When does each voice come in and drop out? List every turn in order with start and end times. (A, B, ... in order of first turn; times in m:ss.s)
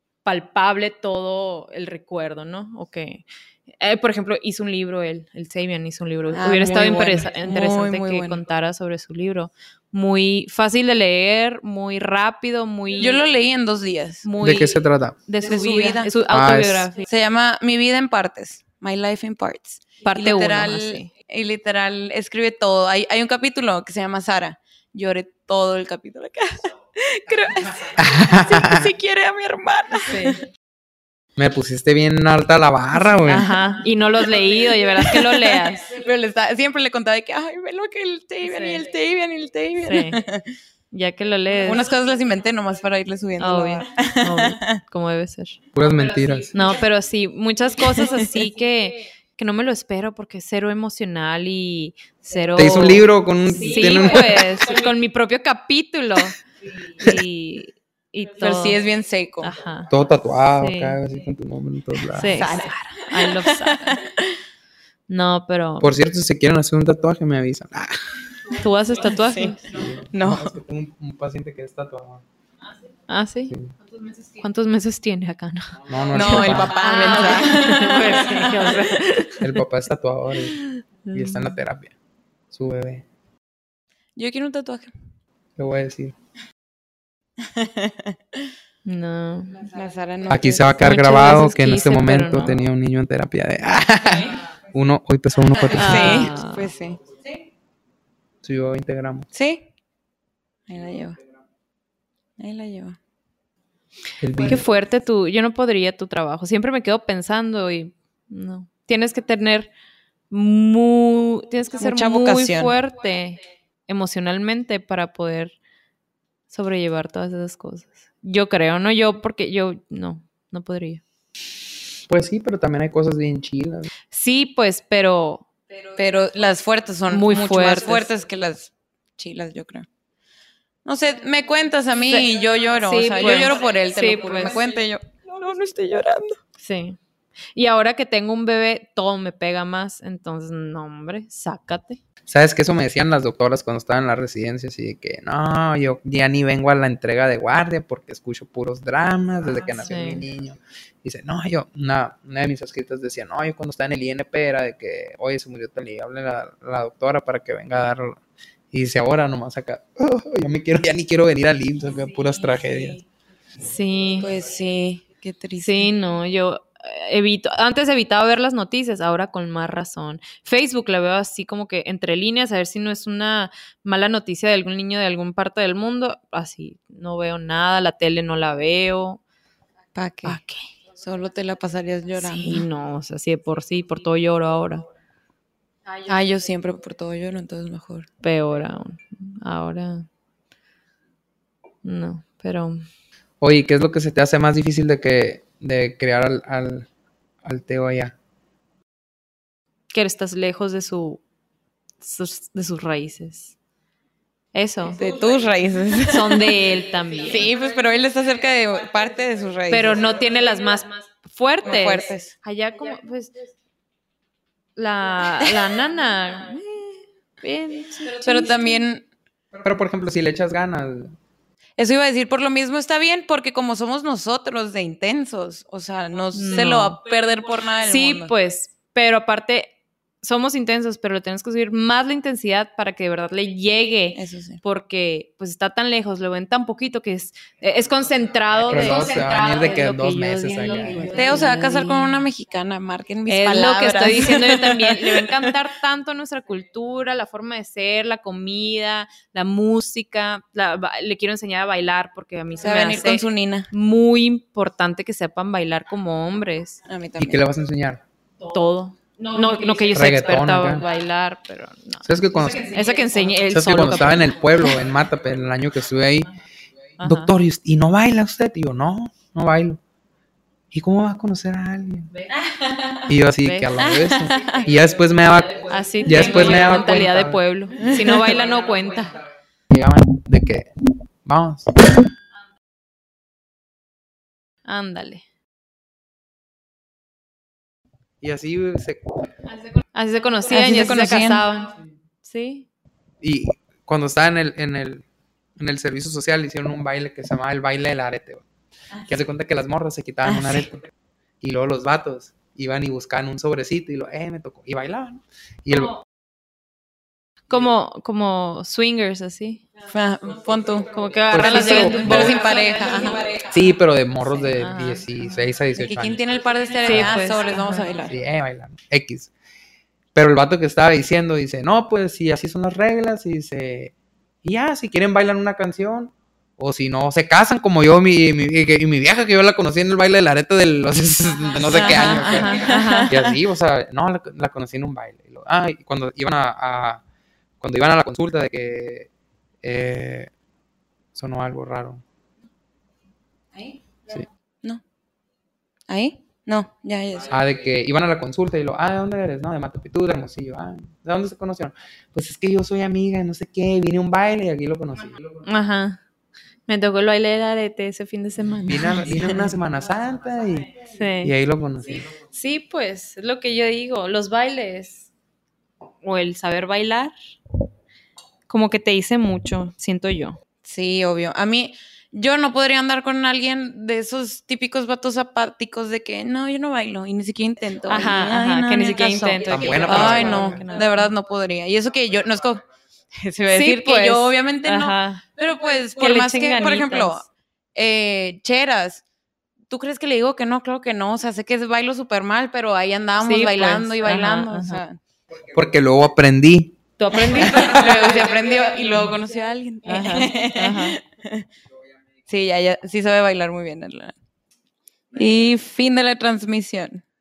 0:00.2-0:13.2 A
0:06.3-0:08.4 B
0:13.0-0:14.3 B
0:14.2-0:17.1 A
0:14.4-0:15.2 C
0:15.4-0:16.1 B
0:16.3-0:16.9 C
0:17.0-0:30.4 B
0:20.0-0:21.1 A
0:28.0-0:28.9 C
0:30.0-0:30.4 A
0:31.4-0:33.5 C
0:33.0-0:36.0 A
0:34.4-0:40.5 B
0:38.4-0:38.8 A
0:39.8-0:40.2 A
0:40.9-0:41.8 A
0:41.6-0:44.8 B
0:43.4-0:45.6 A
0:45.7-0:46.5 C
0:46.5-0:56.4 A
0:47.8-0:48.5 B
0:52.6-0:54.7 C
0:57.0-0:58.8 A
0:58.4-0:59.5 B
0:59.4-0:59.9 A
0:59.9-1:02.5 C
1:00.6-1:01.0 A
1:02.1-1:04.0 A
1:02.3-1:04.4 B
1:05.1-1:05.9 A
1:05.8-1:08.0 C
1:08.5-1:09.7 A
1:09.1-1:09.6 B
1:09.7-1:12.2 C
1:10.1-1:10.6 B
1:13.1-1:13.6 A
1:13.5-1:13.8 C
1:14.3-1:19.6 A
1:15.9-1:16.8 C
1:16.1-1:18.9 B
1:19.4-1:21.9 C
1:20.6-1:21.6 A
1:22.5-1:23.0 C
1:24.2-1:24.9 B
1:25.6-1:26.1 C
1:27.4-1:28.4 B
1:28.8-1:29.7 A
1:29.7-1:30.8 B
1:30.3-1:36.3 C
1:30.8-1:32.6 A
1:35.5-1:37.3 B
1:35.7-1:36.7 A
1:38.4-1:39.3 C
1:39.3-1:39.7 B
1:40.7-1:41.2 B
1:42.4-1:43.0 B
1:44.2-1:44.7 C
1:44.5-1:49.7 A
1:50.3-1:55.6 A
1:51.8-1:52.8 B
1:56.5-2:01.0 A
2:02.1-2:03.9 C
2:04.1-2:05.5 A
2:06.0-2:09.9 B
2:07.1-2:08.1 A
2:10.8-2:16.4 B
2:12.8-2:14.6 A
2:16.6-2:17.0 A
2:17.5-2:22.0 A
2:22.3-2:38.2 C
2:29.8-2:30.2 A
2:38.7-2:43.0 C
2:43.6-2:44.3 A
2:44.2-2:45.9 B
2:45.6-2:59.2 A
2:59.9-3:00.4 B
3:00.2-3:00.7 A
3:00.9-3:02.7 B
3:02.2-3:04.9 A
3:06.0-3:08.1 B
3:08.2-3:10.1 A
3:11.8-3:12.8 A
3:13.4-3:16.9 C
3:17.4-3:18.1 C
3:19.9-3:21.2 A
3:22.0-3:23.6 A
3:24.5-3:25.1 A
3:24.9-3:26.7 B
3:26.0-3:27.5 A
3:27.3-3:30.2 B
3:29.7-3:33.4 A
3:31.6-3:32.3 B
3:34.8-3:38.8 A
3:38.1-3:39.1 B
3:39.6-3:41.2 C
3:41.8-3:48.3 B
3:46.3-3:47.0 A
3:47.8-4:02.3 A
3:54.2-3:54.6 B
3:58.7-4:01.3 C
4:01.1-4:05.5 B
4:03.3-4:16.8 A
4:12.6-4:13.7 B
4:16.8-4:17.4 B
4:17.2-4:18.0 C
4:18.4-4:24.7 A
4:19.9-4:20.8 C
4:22.0-4:22.8 C
4:23.5-4:26.3 C
4:27.0-4:27.3 A
4:27.0-4:29.8 C
4:30.7-4:32.1 C
4:32.3-4:33.1 B
4:33.1-4:37.4 C
4:33.4-4:33.9 A
4:33.8-4:34.7 B
4:35.6-4:39.2 A
4:37.8-4:38.4 B
4:39.7-4:40.7 C
4:41.2-4:41.8 C
4:44.7-4:45.2 A
4:48.2-4:49.3 C
4:49.9-4:52.7 A
4:50.5-4:51.5 B
4:53.2-4:55.0 C
4:55.6-4:58.4 C
4:59.1-5:06.0 C
5:00.2-5:00.7 B
5:07.5-5:09.7 A
5:09.8-5:13.5 B
5:10.9-5:13.0 A
5:11.3-5:12.4 C
5:13.5-5:16.2 C
5:14.6-5:15.4 A
5:15.7-5:18.2 B
5:16.8-5:17.2 C
5:16.8-5:17.9 A
5:18.0-5:19.3 C
5:20.2-5:37.0 C
5:31.6-5:33.3 B
5:31.7-5:33.2 A
5:37.6-5:39.1 C
5:39.6-5:40.3 C
5:41.2-5:42.0 C
5:43.6-5:44.8 B
5:45.9-5:47.3 B
5:47.3-5:55.4 C
5:55.4-5:56.0 A
5:56.7-5:59.5 A
5:58.7-6:02.1 C
6:00.8-6:01.3 A
6:02.2-6:05.1 A
6:06.0-6:07.2 A
6:08.5-6:10.4 A
6:10.6-6:22.6 B
6:17.9-6:21.1 A
6:19.5-6:20.6 C
6:23.2-6:29.0 B
6:23.5-6:25.2 A
6:26.0-6:27.2 A
6:29.7-6:35.0 B
6:33.2-6:34.8 A
6:35.5-6:36.8 C
6:37.0-6:38.1 A
6:37.1-6:41.5 B
6:39.9-6:41.0 A
6:42.3-6:44.2 B
6:45.1-6:47.0 B